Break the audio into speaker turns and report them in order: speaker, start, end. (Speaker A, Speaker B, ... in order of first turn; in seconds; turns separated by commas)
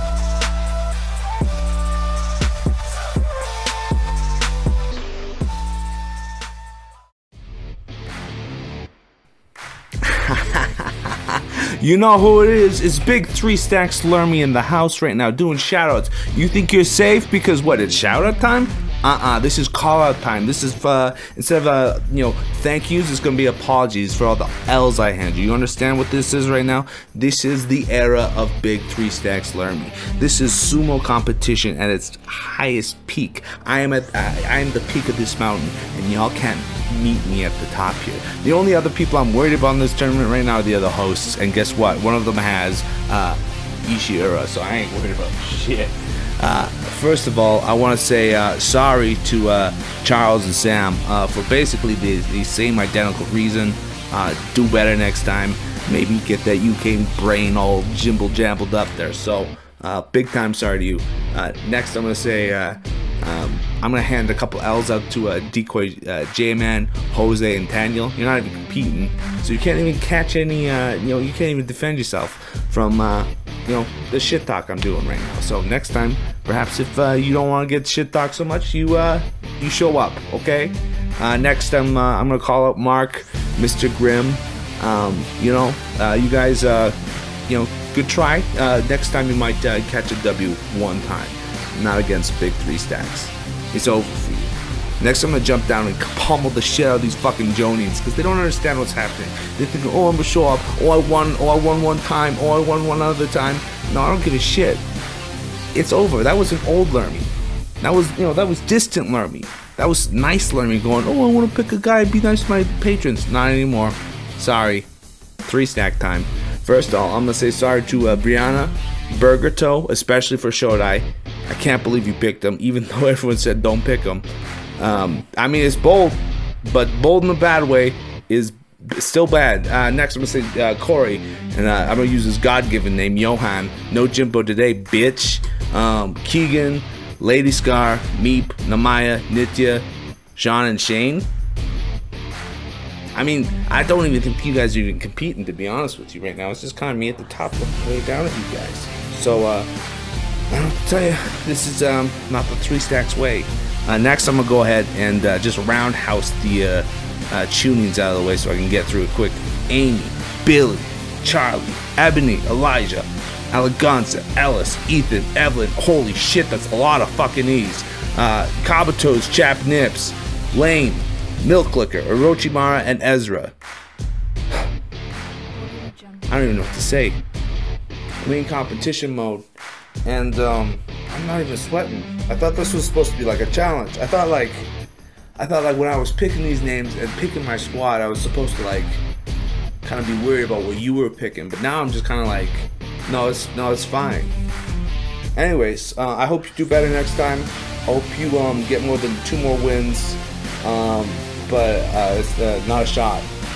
Speaker A: 10.0-104.8, Speaker A: 105.7-114.9, Speaker A: 115.4-124.2, Speaker A: 124.8-139.8, Speaker A: 140.3-141.3, Speaker A: 143.1-149.7, Speaker A: 150.5-173.5, Speaker A: 176.3-177.2, Speaker A: 178.2-179.4, Speaker A: 180.0-184.7, Speaker A: 185.3-189.0, Speaker A: 189.8-194.4, Speaker A: 195.3-203.3